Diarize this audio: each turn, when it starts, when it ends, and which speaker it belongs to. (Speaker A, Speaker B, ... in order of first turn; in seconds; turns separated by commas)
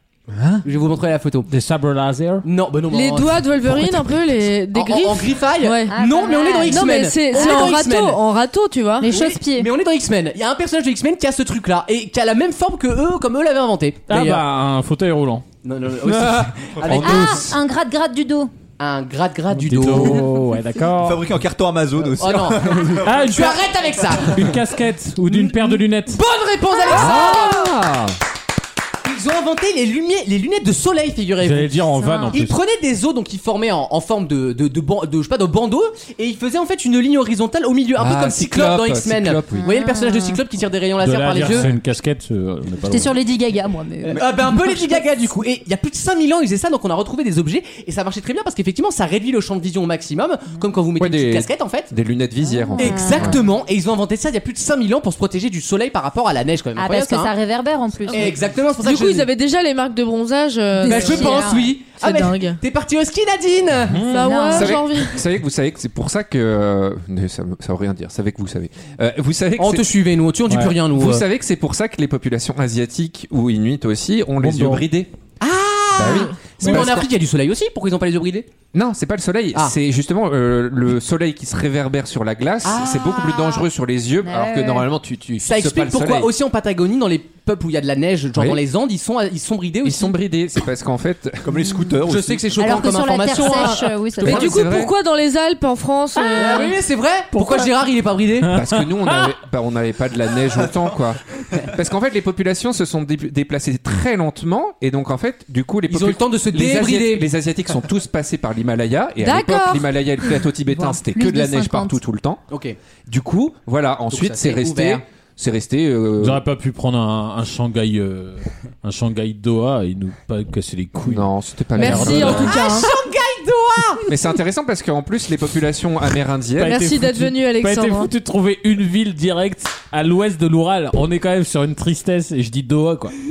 Speaker A: 0.3-0.7, Speaker B: 0.6-1.5, Speaker A: 1.5-2.5, Speaker B: 2.4-3.5, Speaker C: 2.9-5.9, Speaker B: 4.7-8.2, Speaker D: 5.9-7.8, Speaker C: 6.6-9.1, Speaker D: 9.0-9.7, Speaker B: 9.1-14.4, Speaker A: 14.1-15.4, Speaker B: 15.6-17.4, Speaker A: 16.9-17.4, Speaker D: 16.9-18.5, Speaker E: 17.0-17.3, Speaker B: 18.8-20.4, Speaker A: 19.5-21.2, Speaker E: 21.0-23.6, Speaker B: 22.1-24.5, Speaker A: 23.0-23.6, Speaker A: 24.2-26.2, Speaker B: 25.3-27.8, Speaker D: 26.8-27.7, Speaker F: 26.9-27.9, Speaker A: 27.0-27.4, Speaker B: 29.0-31.8, Speaker A: 31.4-32.6, Speaker D: 32.0-32.4, Speaker B: 32.3-41.8, Speaker F: 38.0-39.7, Speaker D: 39.5-40.4, Speaker A: 41.0-43.1, Speaker D: 42.8-44.9, Speaker E: 44.0-44.3, Speaker B: 44.1-51.9, Speaker F: 50.9-53.4, Speaker D: 52.5-53.4, Speaker B: 52.8-57.3, Speaker D: 56.7-58.4, Speaker B: 58.1-59.3, Speaker C: 58.1-62.6, Speaker D: 60.7-61.8, Speaker B: 60.9-64.1, Speaker A: 63.9-64.3, Speaker C: 64.1-65.2, Speaker D: 64.1-64.7, Speaker F: 64.5-70.0, Speaker B: 69.6-71.2, Speaker A: 70.5-70.7, Speaker F: 70.7-75.1, Speaker A: 74.4-74.7, Speaker B: 75.4-78.5, Speaker F: 75.9-77.1, Speaker F: 78.7-86.3, Speaker B: 82.6-83.7, Speaker D: 84.2-84.9, Speaker B: 85.4-90.2, Speaker F: 88.3-88.6, Speaker F: 89.8-91.5, Speaker E: 91.4-92.8, Speaker B: 92.0-94.5, Speaker D: 92.5-94.6, Speaker C: 93.3-96.8, Speaker F: 94.2-94.9, Speaker D: 96.2-96.7, Speaker B: 96.3-98.6, Speaker A: 97.3-97.7, Speaker A: 98.4-99.3, Speaker F: 98.5-112.4, Speaker B: 105.9-107.3, Speaker C: 109.2-109.8, Speaker D: 110.8-112.0, Speaker B: 112.5-112.8, Speaker F: 113.1-116.4, Speaker B: 114.1-115.0, Speaker A: 116.2-122.6, Speaker F: 121.0-122.7, Speaker C: 121.8-122.9, Speaker B: 122.0-124.0, Speaker F: 124.1-126.8, Speaker A: 126.5-133.1, Speaker C: 126.6-128.1